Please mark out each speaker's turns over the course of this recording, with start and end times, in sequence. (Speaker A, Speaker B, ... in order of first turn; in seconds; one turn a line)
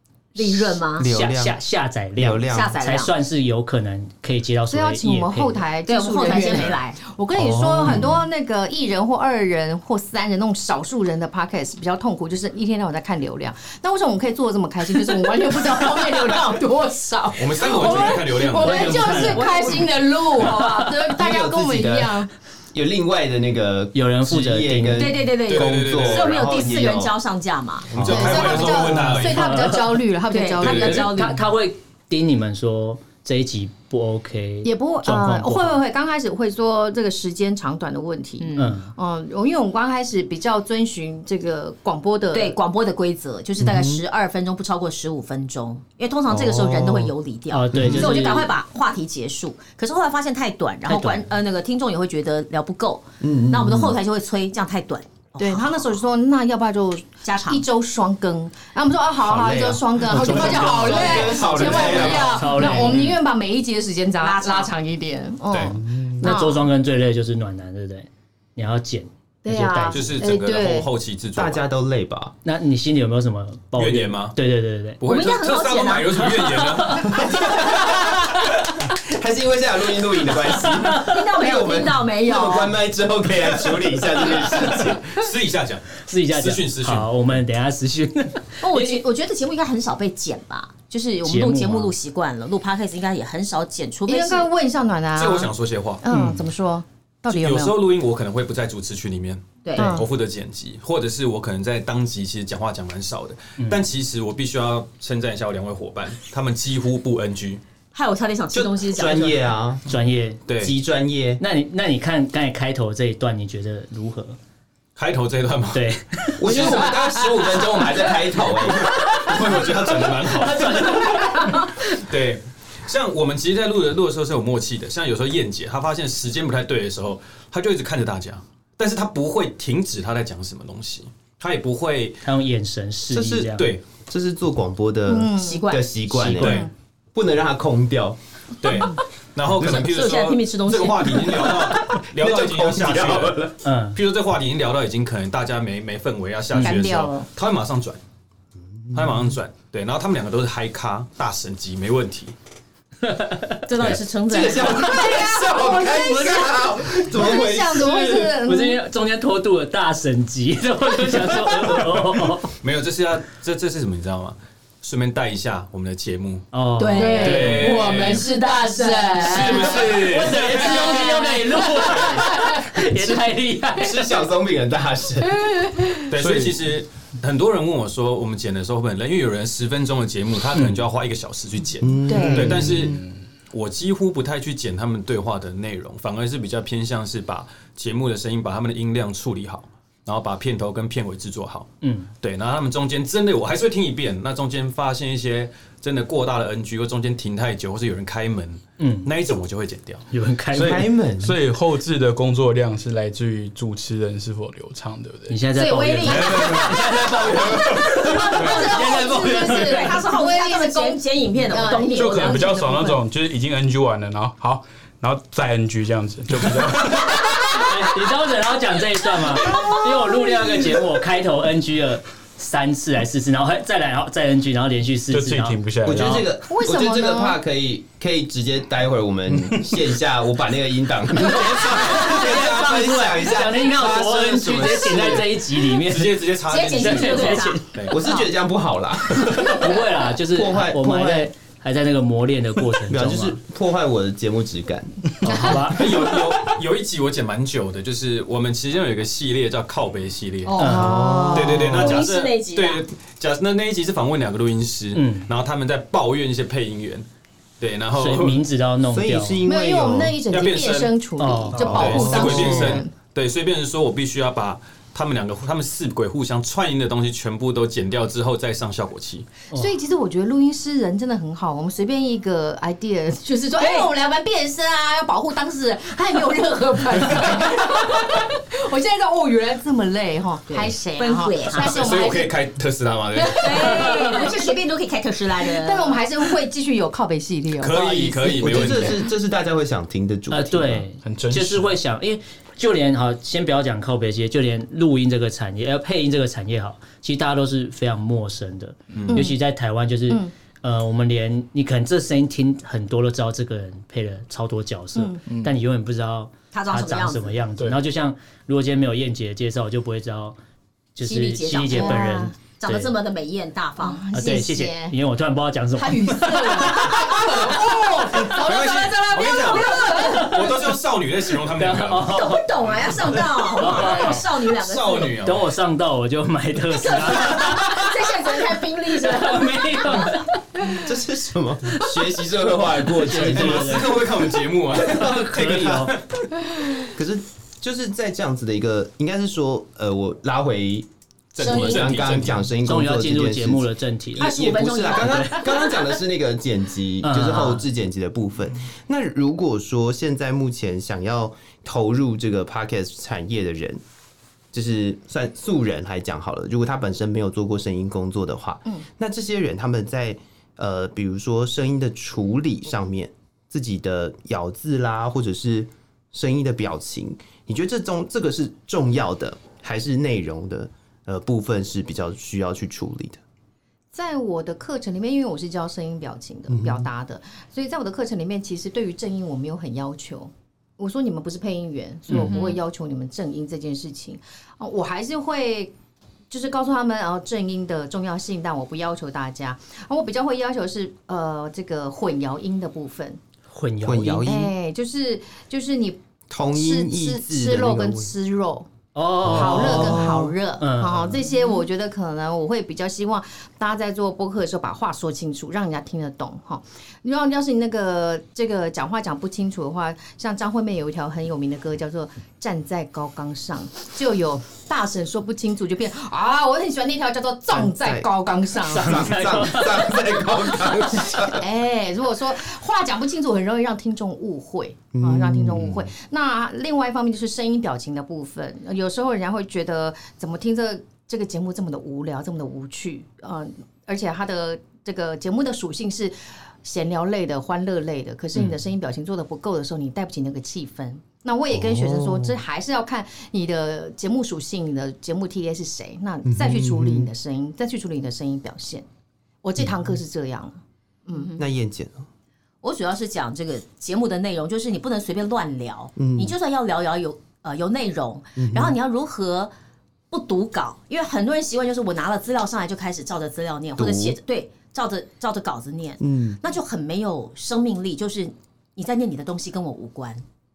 Speaker A: 0.3-1.1
Speaker B: 0.4-5.7
Speaker C: 1.0-1.6
Speaker C: 2.2-2.7
Speaker A: 2.5-3.1
Speaker D: 4.7-22.3
Speaker A: 5.8-7.0
Speaker C: 7.3-8.2
Speaker E: 17.4-19.0
Speaker B: 18.6-19.8
Speaker A: 18.6-20.0
Speaker B: 20.4-20.7
Speaker C: 21.1-27.1
Speaker B: 23.9-25.1
Speaker A: 24.9-28.0
Speaker E: 25.5-26.5
Speaker E: 27.9-29.6
Speaker C: 27.9-29.2
Speaker D: 28.0-31.2
Speaker B: 29.3-30.0
Speaker A: 30.3-31.4
Speaker E: 30.6-31.0
Speaker B: 30.7-35.8
Speaker D: 34.6-42.6
Speaker A: 38.4-38.8
Speaker B: 38.5-38.9
Speaker A: 42.3-55.8
Speaker C: 43.6-44.0
Speaker C: 46.3-47.1
Speaker B: 47.5-48.5
Speaker C: 47.7-48.2
Speaker B: 50.9-51.2
Speaker C: 53.2-54.0
Speaker D: 55.4-66.7
Speaker A: 57.2-57.6
Speaker C: 59.2-62.5
Speaker B: 60.1-63.1
Speaker A: 60.8-61.2
Speaker E: 61.4-62.5
Speaker A: 64.2-64.7
Speaker C: 65.8-66.2
Speaker B: 66.2-70.2
Speaker D: 69.4-70.9
Speaker E: 69.9-71.7
Speaker C: 71.3-72.3
Speaker B: 72.4-75.0
Speaker E: 73.8-74.3
Speaker E: 75.0-78.1
Speaker A: 75.0-76.8
Speaker C: 76.9-85.1
Speaker A: 81.0-82.7
Speaker E: 83.8-87.1
Speaker B: 86.0-89.0
Speaker A: 88.6-94.5
Speaker B: 91.2-91.9
Speaker D: 94.1-97.8
Speaker E: 95.1-96.0
Speaker B: 96.1-96.5
Speaker E: 97.3-107.6
Speaker A: 99.6-100.0
Speaker D: 99.8-100.1
Speaker B: 103.6-103.8
Speaker A: 107.9-109.4
Speaker C: 108.5-109.8
Speaker B: 109.9-110.4
Speaker E: 110.5-110.7
Speaker C: 110.6-111.4
Speaker B: 111.4-114.4
Speaker E: 115.0-115.8
Speaker B: 115.7-116.9
Speaker C: 116.4-120.1
Speaker E: 116.4-117.0
Speaker E: 118.8-132.2
Speaker B: 120.2-121.7
Speaker B: 132.2-133.7
Speaker C: 133.1-138.2
Speaker E: 133.6-133.8
Speaker D: 135.1-135.6
Speaker A: 135.3-135.9
Speaker B: 136.1-136.6
Speaker E: 136.3-136.7
Speaker D: 136.4-136.7
Speaker E: 138.6-148.0
Speaker A: 139.6-141.5
Speaker C: 141.3-143.5
Speaker B: 143.6-144.0
Speaker B: 146.5-146.8
Speaker D: 146.6-147.3
Speaker C: 148.9-149.2
Speaker E: 148.9-152.3
Speaker B: 153.0-153.9
Speaker A: 153.7-155.3
Speaker C: 154.3-158.3
Speaker D: 154.6-158.8
Speaker B: 158.4-162.5
Speaker E: 162.6-166.5
Speaker B: 166.5-167.8
Speaker A: 166.8-169.9
Speaker D: 166.9-172.4
Speaker E: 167.1-168.3
Speaker E: 169.2-171.2
Speaker B: 169.5-174.1
Speaker A: 170.9-171.5
Speaker C: 173.7-175.5
Speaker D: 175.6-176.0
Speaker E: 176.1-183.0
Speaker F: 176.2-176.6
Speaker C: 181.8-183.0
Speaker D: 182.1-182.7
Speaker E: 183.5-191.7
Speaker B: 191.8-192.1
Speaker E: 192.2-200.1
Speaker B: 198.8-199.1
Speaker B: 200.1-200.9
Speaker F: 200.5-205.4
Speaker C: 200.5-201.4
Speaker B: 205.3-209.9
Speaker A: 205.5-206.7
Speaker F: 206.0-208.6
Speaker D: 207.8-213.0
Speaker A: 208.6-212.6
Speaker F: 211.9-217.6
Speaker B: 217.4-226.2
Speaker D: 219.5-220.4
Speaker F: 225.1-226.3
Speaker C: 225.8-235.5
Speaker D: 226.5-227.4
Speaker B: 231.2-236.2
Speaker E: 235.7-238.0
Speaker A: 236.5-237.7
Speaker B: 236.8-237.6
Speaker C: 237.9-241.3
Speaker B: 239.4-243.4
Speaker C: 242.9-245.5
Speaker B: 245.2-245.9
Speaker E: 245.6-250.6
Speaker D: 250.5-251.8
Speaker B: 250.6-251.1
Speaker C: 250.6-251.9
Speaker E: 251.3-257.0
Speaker A: 251.6-252.8
Speaker B: 254.9-255.3
Speaker E: 257.6-258.4
Speaker B: 257.9-259.4
Speaker C: 258.8-260.2
Speaker D: 259.4-262.9
Speaker E: 260.3-260.9
Speaker B: 261.2-262.5
Speaker E: 261.5-269.3
Speaker C: 261.6-262.8
Speaker D: 269.5-282.4
Speaker A: 273.6-273.9
Speaker A: 280.5-282.1
Speaker E: 281.5-284.0
Speaker D: 283.1-284.5
Speaker A: 283.4-286.0
Speaker D: 285.4-288.9
Speaker E: 287.6-289.0
Speaker C: 288.3-290.8
Speaker B: 290.3-310.4
Speaker F: 291.0-291.7
Speaker E: 298.9-299.2
Speaker D: 299.1-299.4
Speaker D: 304.9-305.2
Speaker F: 305.3-305.5
Speaker A: 306.5-307.4
Speaker B: 310.9-312.9
Speaker A: 311.0-314.1
Speaker D: 311.7-312.3
Speaker D: 313.8-314.9
Speaker B: 314.1-316.9
Speaker D: 315.8-320.4
Speaker A: 316.7-317.0
Speaker E: 318.2-322.1
Speaker A: 319.3-320.5
Speaker B: 320.2-320.4
Speaker B: 321.5-322.4
Speaker A: 322.0-325.2
Speaker B: 323.5-324.2
Speaker E: 323.6-325.4
Speaker B: 325.2-327.9
Speaker A: 326.8-330.1
Speaker B: 328.9-330.3
Speaker C: 330.8-334.1
Speaker B: 332.9-334.1
Speaker E: 333.2-336.2
Speaker B: 334.8-335.9
Speaker C: 334.9-335.8
Speaker C: 336.8-353.8
Speaker E: 341.3-342.4
Speaker A: 341.4-342.2
Speaker B: 342.6-344.3
Speaker A: 344.2-345.8
Speaker B: 344.9-345.5
Speaker B: 347.0-347.6
Speaker C: 354.5-373.2
Speaker D: 373.9-385.7
Speaker C: 376.5-376.9
Speaker A: 382.1-382.6
Speaker D: 386.3-393.2
Speaker B: 393.5-394.3
Speaker C: 393.8-394.5
Speaker D: 394.2-396.0
Speaker C: 396.3-398.1
Speaker D: 396.5-398.7
Speaker B: 398.9-401.2
Speaker C: 399.2-400.3
Speaker D: 399.2-419.1
Speaker C: 417.5-418.1
Speaker B: 418.6-420.0
Speaker C: 418.7-421.4
Speaker D: 421.3-448.9
Speaker C: 424.9-425.9
Speaker C: 441.5-442.4
Speaker C: 446.2-447.1
Speaker D: 449.4-451.3
Speaker A: 451.1-451.4
Speaker C: 451.4-452.1
Speaker A: 452.6-459.5
Speaker C: 455.9-456.3
Speaker C: 458.4-458.8
Speaker A: 460.1-470.2
Speaker C: 463.8-464.2
Speaker C: 466.0-466.4